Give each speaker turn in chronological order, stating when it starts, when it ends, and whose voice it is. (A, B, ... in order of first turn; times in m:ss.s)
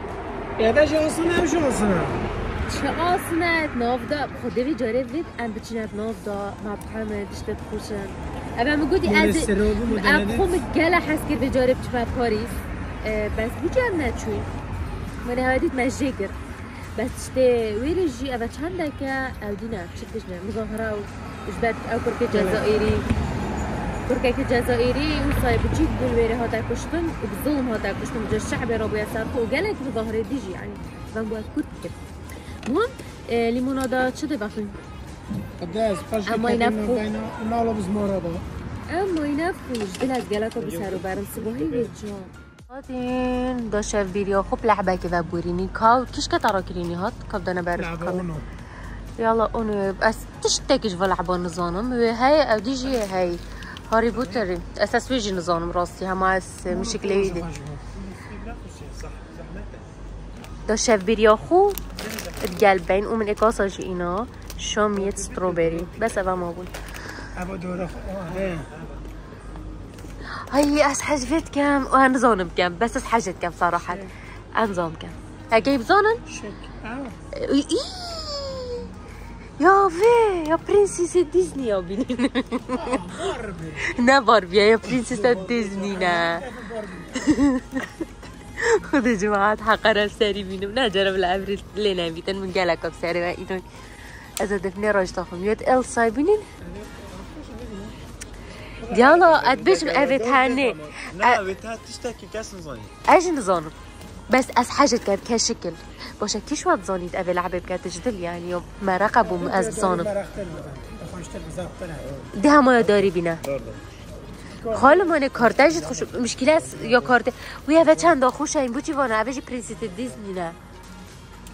0:00.6-0:02.2 A
0:02.6-0:14.5 B
0:09.0-0:10.5 A
0:15.2-0:16.4 B
0:17.0-0:23.0 B
0:22.3-0:22.7 A
0:24.0-0:32.0 B
0:32.6-0:34.8 B
0:35.6-0:38.4 A
0:36.2-0:37.0 B
0:38.9-0:48.3 B
0:40.5-0:41.9 C
0:47.8-0:48.5 A
0:49.2-0:57.5 B
0:56.7-0:59.8 A
0:58.9-0:59.8 C
1:00.7-1:01.8 B
1:02.0-1:02.5 C
1:02.4-1:06.7 B
1:05.0-1:06.0 C
1:07.3-1:08.7 A
1:08.3-1:09.0 C
1:10.3-1:16.2 B
1:13.8-1:14.1 A
1:16.3-1:17.2 A
1:17.3-1:18.9 B
1:19.6-1:23.2 B
1:22.7-1:23.9 A
1:23.9-1:26.4 B
1:24.8-1:27.3 A
1:27.2-1:33.6 B
1:34.2-1:36.5 B
1:36.6-1:38.0 A
1:38.8-1:42.9 C
1:38.9-1:41.4 B
1:43.0-1:43.7 B
1:44.3-1:50.1 B
1:49.2-1:52.1 A
1:52.1-1:53.8 C
1:52.3-1:53.4 B
1:54.5-1:56.0 A
1:54.7-2:00.6 B
1:56.7-1:57.0 C